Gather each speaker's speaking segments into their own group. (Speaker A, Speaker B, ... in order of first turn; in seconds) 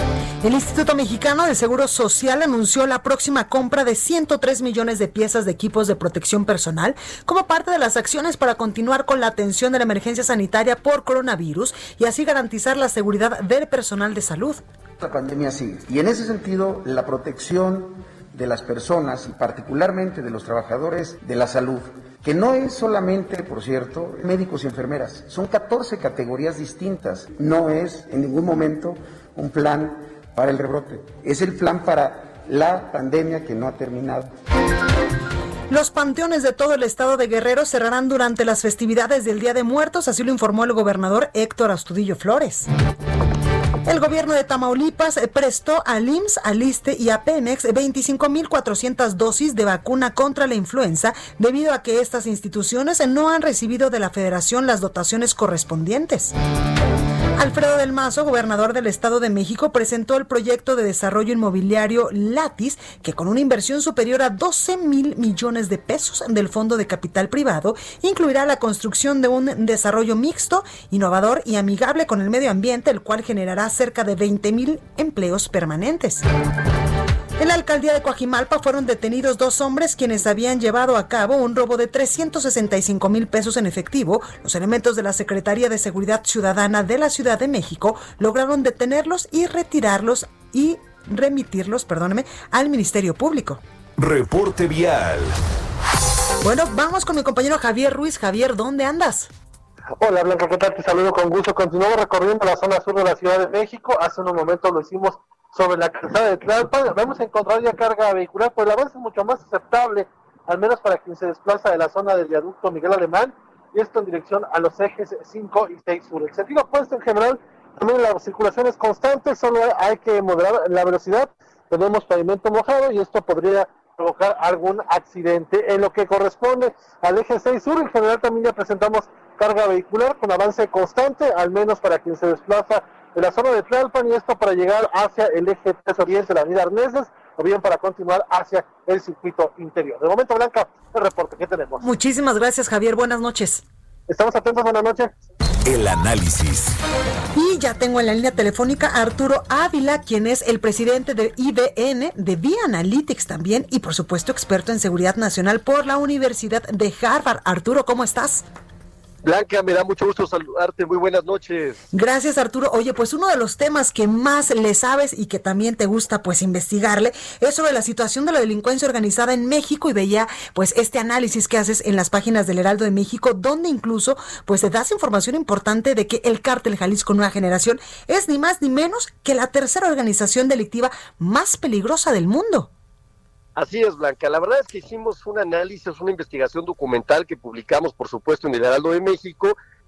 Speaker A: 0.4-14.6, 35.7-42.7, 43.8-56.3, 57.4-76.2, 77.4-93.6, 96.4-99.3, 141.8-143.6, 147.3-158.4, 161.9-182.7
Speaker B: 15.0-34.3
Speaker C: 94.0-95.3, 145.7-146.7
Speaker D: 100.0-141.8, 144.1-145.1
Speaker E: 159.2-161.8, 183.5-189.6